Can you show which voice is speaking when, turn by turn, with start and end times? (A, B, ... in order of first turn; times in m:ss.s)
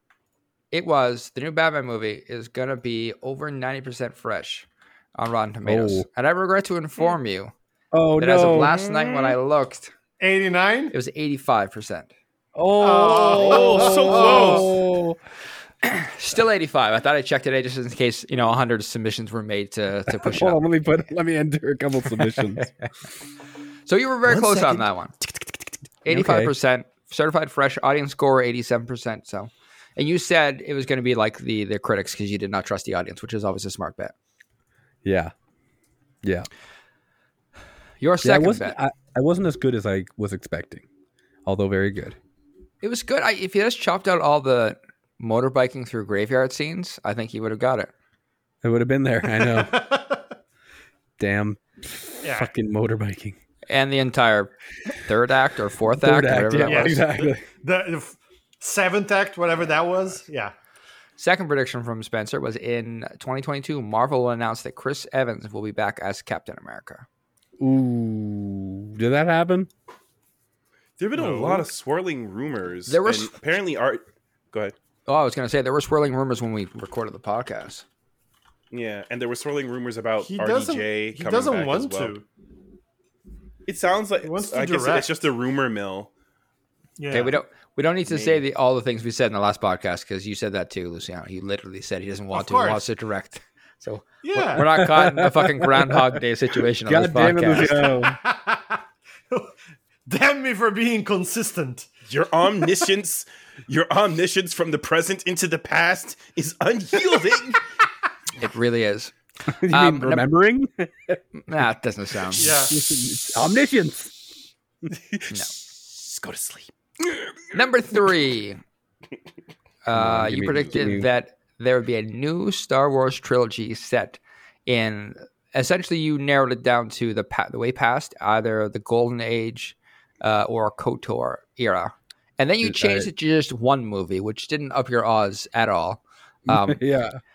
0:00.7-0:07.5 A
0:05.6-0:06.1 B
0:07.9-0:08.8 B
0:08.2-0:09.9 A
0:08.7-0:09.4 C
0:10.2-0:11.0 D
0:10.9-0:12.1 A
0:12.6-0:15.2 B
0:12.8-0:14.8 D
0:13.3-0:14.8 C
0:15.8-0:20.6 A
0:20.1-0:22.7 B
0:23.9-0:25.1 A
0:24.2-0:25.6 C
0:26.0-0:34.1 A
0:26.1-0:26.5 B
0:35.0-0:35.3 B
0:38.0-0:38.8 A
0:38.2-0:40.8 B
0:41.5-0:42.2 B
0:42.8-0:47.9 A
0:48.6-0:49.8 B
0:49.3-0:50.2 D
0:51.2-0:53.4 B
0:52.2-0:52.5 D
0:53.7-0:57.0 A
0:55.9-0:57.4 B
0:56.6-1:00.5 D
1:01.2-1:07.1 A
1:07.6-1:09.7 B
1:11.0-1:14.8 C
1:11.1-1:11.7 D
1:12.9-1:13.3 A
1:15.1-1:17.8 A
1:18.7-1:22.1 C
1:20.2-1:22.2 D
1:23.6-1:26.1 C
1:24.2-1:25.1 D
1:27.0-1:27.4 D
1:27.1-1:37.8 A
1:28.1-1:28.4 C
1:32.3-1:32.8 D
1:34.2-1:34.7 D
1:34.8-1:36.2 B
1:36.9-1:38.2 B
1:37.6-1:39.5 D
1:40.1-1:41.9 D
1:42.1-1:47.6 C
1:48.4-1:50.3 A
1:49.5-1:51.2 B
1:51.4-1:52.6 A
1:52.4-1:52.9 D
1:52.4-1:54.2 B
1:54.9-1:57.5 C
1:57.5-1:58.6 A
1:59.8-2:16.8 A
1:59.9-2:01.1 B
2:12.6-2:13.1 B
2:16.5-2:17.2 B